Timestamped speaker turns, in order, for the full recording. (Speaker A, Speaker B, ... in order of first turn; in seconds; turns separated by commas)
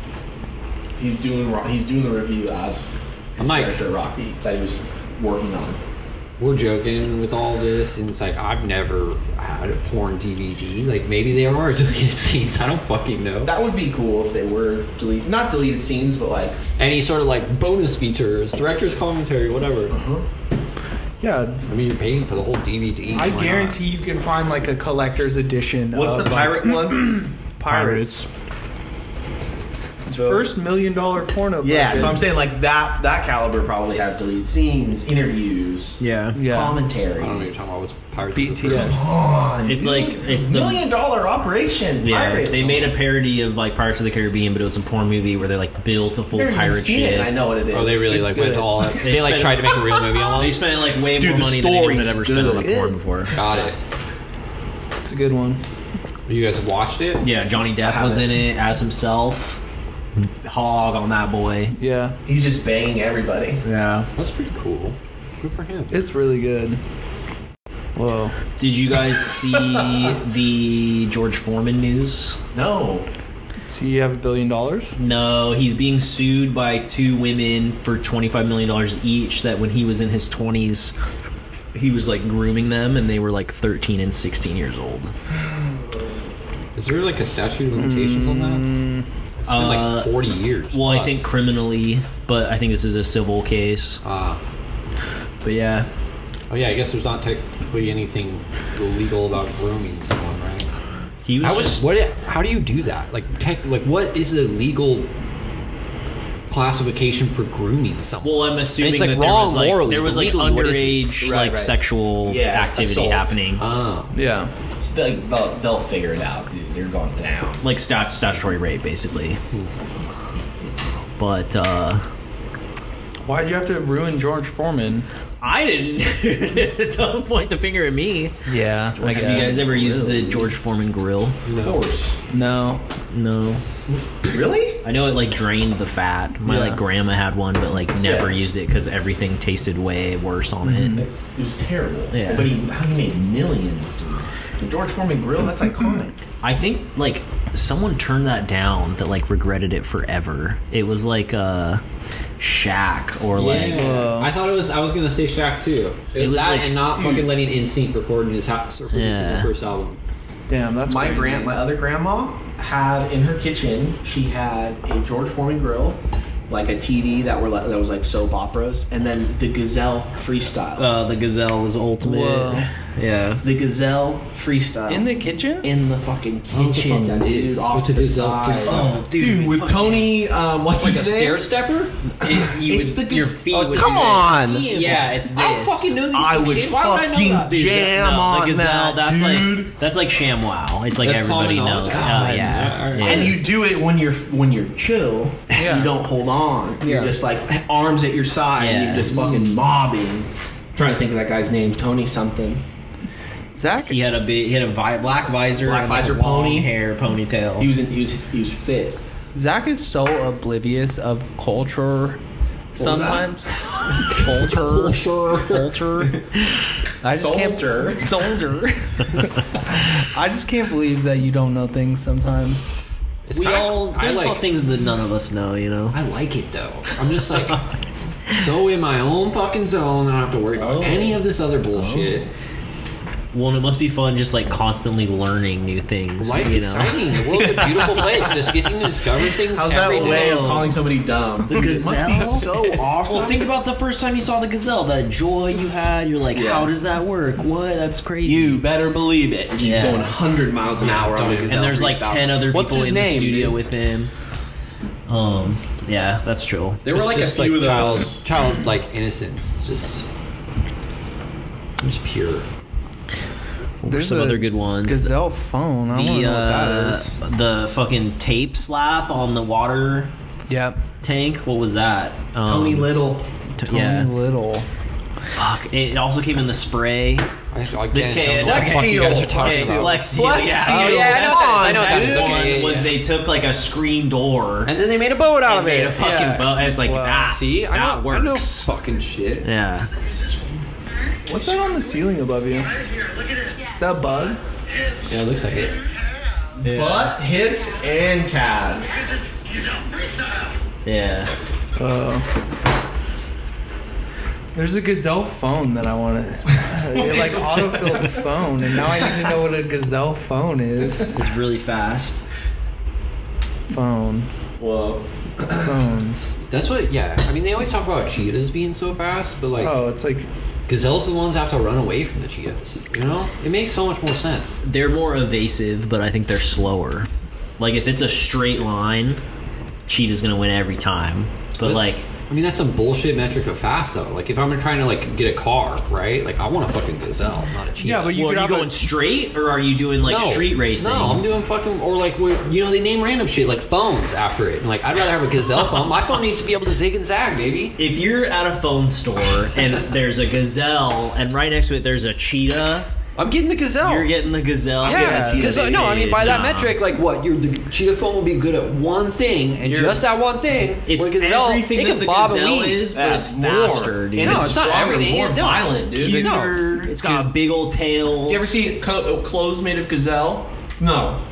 Speaker A: 1.0-5.8, Speaker B: 3.4-3.8, Speaker B: 6.4-13.5, Speaker A: 13.4-16.6, Speaker B: 16.8-19.9, Speaker A: 19.9-20.2, Speaker C: 21.2-21.7, Speaker B: 21.6-23.8, Speaker C: 23.1-28.2, Speaker A: 25.9-27.2, Speaker D: 27.6-28.3, Speaker C: 30.1-32.2, Speaker A: 30.1-30.5, Speaker A: 31.6-37.5, Speaker D: 36.0-36.4, Speaker C: 36.3-36.8, Speaker B: 37.2-39.0, Speaker C: 38.3-39.2, Speaker A: 38.6-42.9, Speaker D: 39.6-40.8, Speaker D: 42.0-47.3, Speaker A: 46.3-48.1, Speaker B: 47.7-50.7, Speaker C: 48.1-48.9, Speaker D: 48.8-53.3, Speaker A: 51.1-53.0, Speaker C: 52.4-52.9, Speaker B: 53.3-53.8, Speaker C: 55.0-55.6, Speaker B: 56.3-57.2, Speaker D: 57.2-59.6, Speaker A: 57.8-58.4, Speaker D: 60.1-61.7, Speaker C: 61.8-62.2, Speaker A: 62.2-63.6, Speaker D: 63.6-64.1, Speaker B: 64.2-66.0, Speaker C: 65.9-66.8, Speaker C: 68.0-68.4, Speaker D: 68.6-72.4, Speaker A: 72.5-73.1, Speaker C: 73.6-75.0, Speaker D: 75.0-80.9, Speaker D: 81.7-85.1, Speaker B: 86.8-88.7, Speaker C: 87.7-89.0, Speaker B: 89.5-91.3, Speaker D: 89.5-90.2, Speaker D: 90.7-94.0, Speaker B: 94.0-94.4, Speaker D: 95.4-95.9, Speaker B: 96.5-100.7, Speaker D: 101.2-101.8, Speaker B: 101.4-105.1, Speaker B: 106.5-111.1, Speaker D: 108.2-113.6, Speaker A: 111.2-113.3, Speaker B: 113.6-114.2, Speaker C: 114.1-114.5, Speaker A: 114.8-117.6, Speaker D: 117.6-119.4, Speaker D: 121.2-122.0, Speaker C: 123.2-125.1, Speaker D: 125.4-128.4, Speaker C: 128.5-129.7, Speaker D: 128.9-131.4, Speaker A: 129.1-130.5, Speaker B: 129.3-129.6, Speaker B: 131.4-131.8, Speaker A: 131.5-132.2, Speaker C: 132.3-132.8, Speaker D: 133.1-133.6, Speaker A: 134.2-134.8, Speaker D: 134.8-141.0, Speaker C: 136.4-136.8, Speaker A: 138.0-138.3, Speaker C: 140.6-141.0, Speaker A: 140.9-146.1, Speaker D: 142.1-142.5, Speaker C: 145.7-146.0, Speaker D: 146.4-151.8, Speaker D: 152.4-154.0, Speaker B: 153.3-160.0, Speaker C: 153.7-154.3, Speaker D: 156.2-156.8, Speaker A: 157.0-157.3, Speaker D: 158.9-159.5, Speaker C: 160.5-161.6, Speaker A: 160.8-170.9, Speaker D: 170.8-173.4, Speaker C: 172.0-172.7, Speaker A: 173.4-181.4, Speaker C: 174.9-175.7, Speaker B: 176.5-178.9, Speaker D: 178.6-180.1, Speaker B: 180.8-182.0, Speaker D: 182.2-186.0, Speaker A: 182.2-184.7, Speaker B: 183.5-188.3, Speaker A: 186.1-189.7, Speaker D: 188.2-193.4, Speaker B: 191.0-193.4, Speaker A: 191.9-202.6, Speaker C: 195.5-195.9, Speaker C: 196.8-197.1, Speaker D: 198.6-199.4, Speaker C: 203.5-204.0, Speaker D: 203.8-207.7, Speaker A: 205.6-206.7, Speaker A: 207.6-209.0, Speaker C: 209.3-212.2, Speaker C: 212.7-213.6, Speaker A: 212.8-213.3, Speaker B: 213.9-215.7, Speaker C: 214.2-214.9, Speaker D: 214.3-216.1, Speaker A: 217.0-218.1, Speaker C: 217.0-222.7, Speaker B: 223.3-224.4, Speaker D: 223.3-226.0, Speaker B: 225.9-227.7, Speaker B: 228.3-232.3, Speaker A: 230.6-231.2, Speaker A: 231.7-232.2, Speaker D: 233.3-237.1, Speaker B: 236.2-240.5, Speaker A: 237.6-238.0, Speaker A: 239.5-243.4, Speaker D: 239.8-240.8, Speaker D: 241.4-248.6, Speaker C: 241.6-242.4, Speaker A: 246.3-246.7, Speaker A: 248.2-253.6, Speaker D: 249.6-250.1, Speaker B: 250.8-251.6, Speaker D: 251.5-254.1, Speaker D: 255.1-256.8, Speaker B: 256.8-260.1, Speaker A: 256.9-258.2, Speaker B: 261.8-262.5, Speaker D: 263.8-265.1, Speaker C: 263.9-267.1, Speaker D: 265.9-270.1, Speaker C: 270.5-270.8, Speaker D: 271.0-272.9, Speaker A: 272.4-273.3, Speaker D: 273.6-274.1, Speaker C: 273.7-274.7, Speaker D: 275.3-277.3, Speaker B: 277.5-280.0, Speaker D: 277.9-284.7, Speaker A: 278.4-282.5, Speaker C: 279.3-280.1, Speaker B: 280.6-283.0, Speaker B: 284.6-286.6, Speaker D: 285.4-288.7, Speaker C: 286.7-287.3, Speaker B: 287.2-289.5, Speaker D: 289.4-289.9, Speaker C: 291.3-292.7, Speaker C: 293.7-294.4, Speaker B: 295.0-295.8, Speaker A: 296.6-299.0, Speaker D: 296.6-297.2, Speaker D: 300.8-301.3, Speaker C: 301.8-302.3, Speaker C: 304.5-311.2, Speaker A: 306.9-308.2, Speaker D: 311.1-312.2, Speaker C: 313.7-314.3, Speaker A: 314.6-315.6, Speaker C: 315.6-316.4, Speaker B: 316.5-319.8, Speaker C: 319.6-320.3, Speaker B: 320.7-324.6, Speaker D: 324.6-329.2, Speaker D: 329.9-332.1, Speaker B: 331.6-338.2, Speaker C: 337.8-338.9, Speaker D: 338.1-341.2, Speaker B: 340.0-347.8, Speaker D: 347.8-352.9, Speaker B: 353.1-354.1, Speaker D: 353.8-356.8, Speaker B: 354.8-362.9, Speaker A: 354.9-356.4, Speaker C: 354.9-355.5, Speaker C: 359.6-360.0, Speaker D: 360.9-368.4, Speaker A: 362.9-366.3, Speaker B: 364.2-366.6, Speaker C: 367.0-367.3, Speaker A: 368.3-371.2